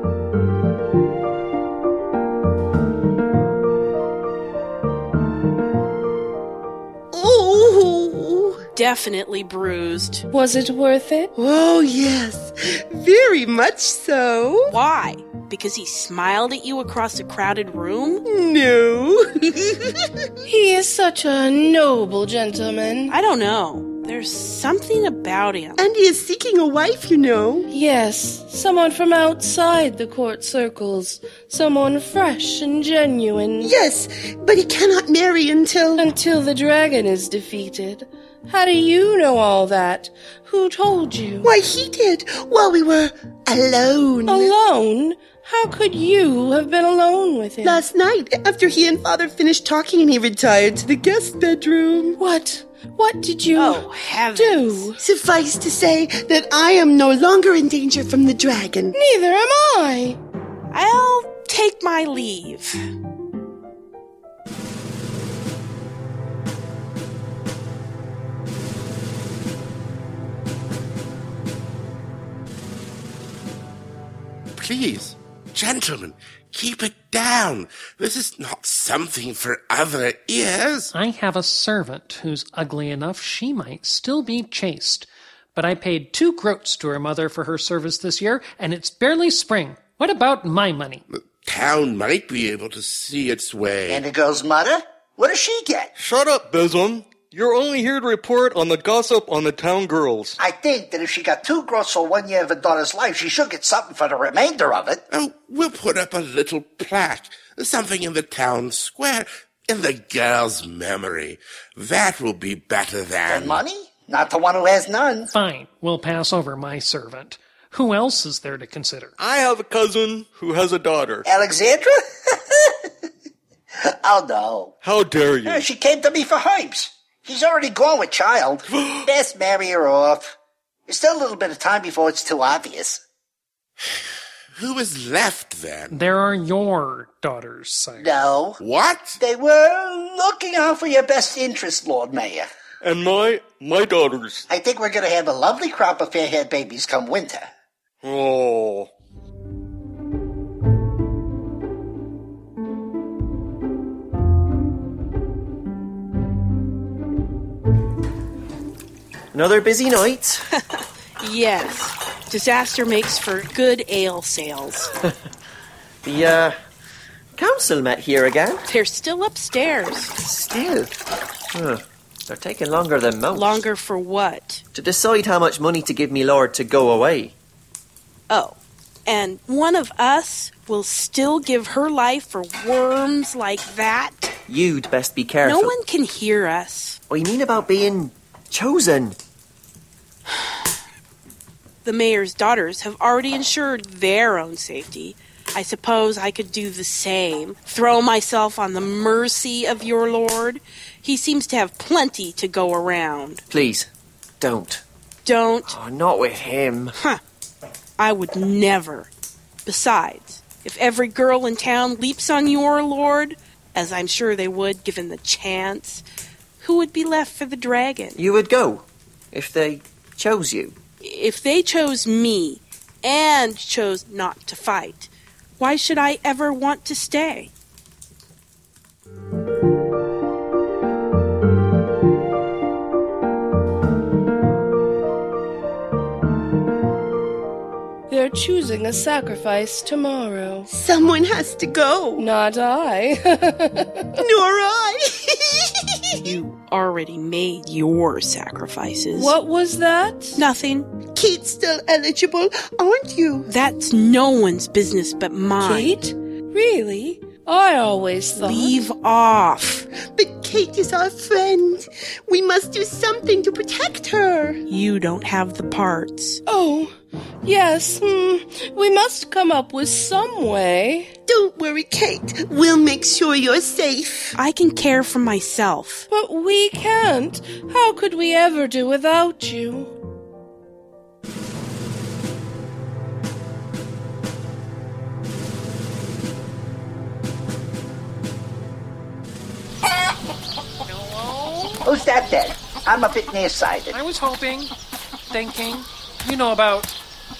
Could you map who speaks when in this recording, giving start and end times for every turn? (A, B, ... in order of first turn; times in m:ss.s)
0:07.1-0:08.6 A
0:08.7-0:10.2 B
0:10.3-0:11.3 C
0:11.4-0:14.7 A
0:14.7-0:18.2 B
0:18.2-0:20.1 A
0:20.5-0:23.1 C
0:23.1-0:25.8 B
0:25.8-0:27.7 A
0:27.7-0:33.7 C
0:33.6-0:36.1 A
0:36.0-0:41.5 C
0:41.4-0:44.5 A
0:44.3-0:47.8 C
0:47.6-0:52.2 A
0:52.2-0:55.0 C
0:53.5-0:54.9 B
0:55.0-0:59.0 A
0:58.9-1:00.2 C
1:00.7-1:02.8 B
1:14.6-1:20.9 D
1:20.9-1:31.0 E
1:31.1-1:34.0 D
1:33.9-1:35.9 F
1:36.0-1:40.4 G
1:40.4-1:45.0 F
1:45.1-1:53.6 D
1:53.3-1:55.3 F
1:55.3-1:59.1 E
1:59.2-2:01.2 G
2:01.2-2:02.9 F
2:03.8-2:04.8 F
2:04.8-2:05.6 G
2:05.4-2:10.3 F
2:10.9-2:13.0 F
2:14.5-2:16.0 D
2:15.9-2:18.2 E
2:18.0-2:18.6 F
2:18.6-2:19.2 D
2:19.2-2:22.5 F
2:22.8-2:24.4 G
2:24.5-2:27.5 F
2:28.0-2:28.9 G
2:39.3-2:40.4 H
2:40.8-2:44.9 B
2:46.0-2:46.6 H
2:47.4-2:48.6 H
2:48.7-2:50.1 B
2:50.2-2:50.9 H
2:51.5-2:53.6 H
2:53.3-2:54.6 B
2:54.7-2:57.3 H
2:58.3-3:04.3 B
3:04.5-3:05.7 H
3:05.4-3:07.0 B
3:07.1-3:09.2 H
3:11.8-3:23.4 B
3:23.5-3:23.9 H
3:24.4-3:24.8 H
3:25.2-3:25.8 B
3:25.7-3:26.9 H
3:27.0-3:27.2 B
3:28.0-3:29.1 B
3:29.6-3:36.0 B
3:36.6-3:38.2 B
3:38.2-3:40.8 H
3:41.0-3:47.5 B
3:58.1-4:00.7 C
4:00.7-4:02.3 A
4:02.2-4:04.2 C
4:04.2-4:06.2 A
4:06.2-4:09.3 B
4:09.1-4:10.4 C
4:10.3-4:10.9 B
4:11.1-4:13.5 A
4:13.4-4:16.0 B
4:15.6-4:18.8 C
4:18.4-4:19.8 B
4:20.1-4:24.6 A
4:24.7-4:26.4 B
4:26.4-4:26.9 C
4:27.4-4:31.1 C
4:31.3-4:34.3 A
4:34.3-4:36.1 B
4:36.1-4:39.9 C
4:50.9-4:51.8 E
4:51.8-4:53.9 F
4:53.9-4:54.7 E
4:55.3-4:56.9 E